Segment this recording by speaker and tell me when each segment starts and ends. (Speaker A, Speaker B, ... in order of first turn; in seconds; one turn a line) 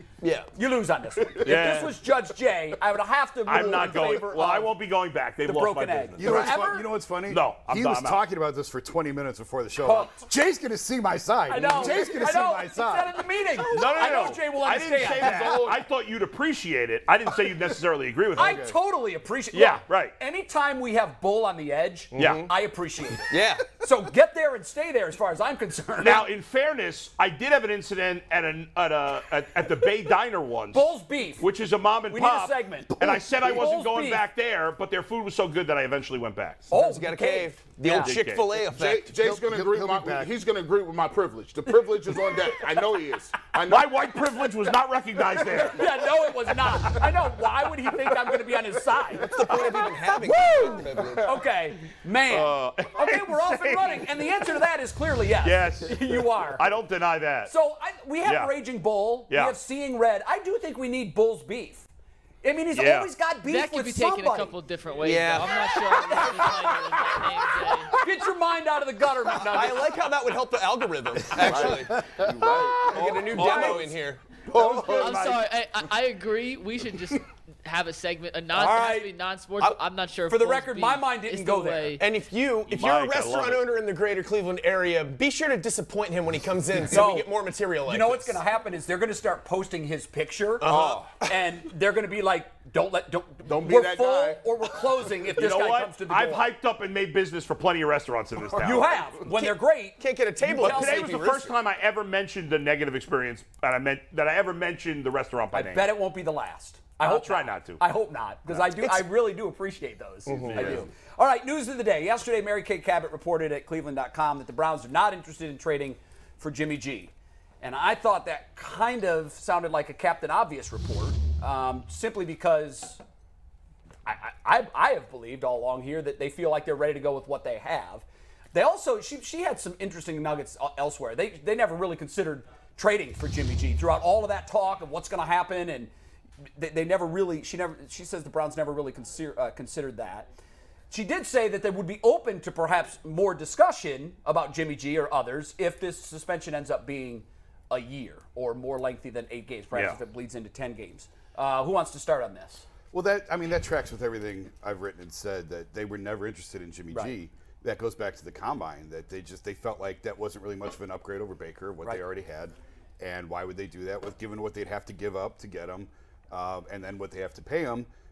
Speaker A: 0.2-0.5
Speaker B: 0.5-4.7
Speaker C: 1.4-2.0
Speaker C: 3.5-6.6
Speaker B: 5.5-6.9
Speaker D: 6.2-13.5
Speaker C: 7.3-8.2
Speaker B: 9.8-10.2
Speaker B: 11.5-15.7
Speaker C: 13.7-18.7
Speaker D: 18.4-18.7
Speaker B: 18.4-26.3
Speaker C: 19.5-20.1
Speaker A: 22.1-22.5
Speaker C: 22.1-22.5
Speaker A: 23.3-23.7
Speaker C: 26.0-36.7
Speaker B: 30.7-31.5
Speaker B: 32.1-34.2
Speaker A: 36.7-39.1
Speaker B: 36.7-38.1
Speaker C: 37.8-38.5
Speaker E: 38.6-44.5
Speaker D: 39.1-40.4
Speaker C: 43.7-45.9
Speaker E: 45.4-45.6
Speaker B: 45.5-49.4
Speaker E: 46.6-47.1
Speaker A: 49.2-51.4
Speaker E: 49.2-49.9
Speaker C: 49.5-50.6
Speaker B: 50.4-56.7
Speaker E: 50.6-51.3
Speaker C: 52.3-54.3
Speaker C: 55.4-57.5
Speaker B: 57.5-61.9
Speaker C: 58.2-58.5
Speaker C: 59.3-59.6
Speaker B: 62.4-64.5
Speaker C: 62.8-63.1
Speaker F: 63.4-68.0
Speaker A: 65.0-66.7
Speaker B: 65.6-66.6
Speaker B: 67.9-69.9
Speaker A: 69.4-72.2
Speaker E: 71.3-75.4
Speaker D: 72.1-72.7
Speaker A: 72.8-74.2
Speaker C: 73.3-73.9
Speaker D: 74.6-75.2
Speaker C: 74.7-75.4
Speaker F: 74.8-82.0
Speaker B: 78.5-79.1
Speaker B: 80.3-82.0
Speaker A: 82.0-88.4
Speaker C: 82.7-83.7
Speaker B: 86.8-87.3
Speaker B: 87.8-96.5
Speaker A: 90.6-91.3
Speaker E: 90.7-91.1
Speaker E: 93.5-94.4
Speaker C: 95.3-99.1
Speaker B: 98.5-101.2
Speaker A: 99.2-101.5
Speaker C: 100.6-105.9
Speaker B: 105.5-117.1
Speaker C: 107.0-107.8
Speaker A: 108.8-109.1
Speaker A: 110.3-110.9
Speaker C: 110.5-110.9
Speaker B: 117.6-123.0
Speaker B: 124.1-135.9
Speaker B: 136.6-140.3
Speaker B: 140.9-152.7
Speaker D: 152.9-167.9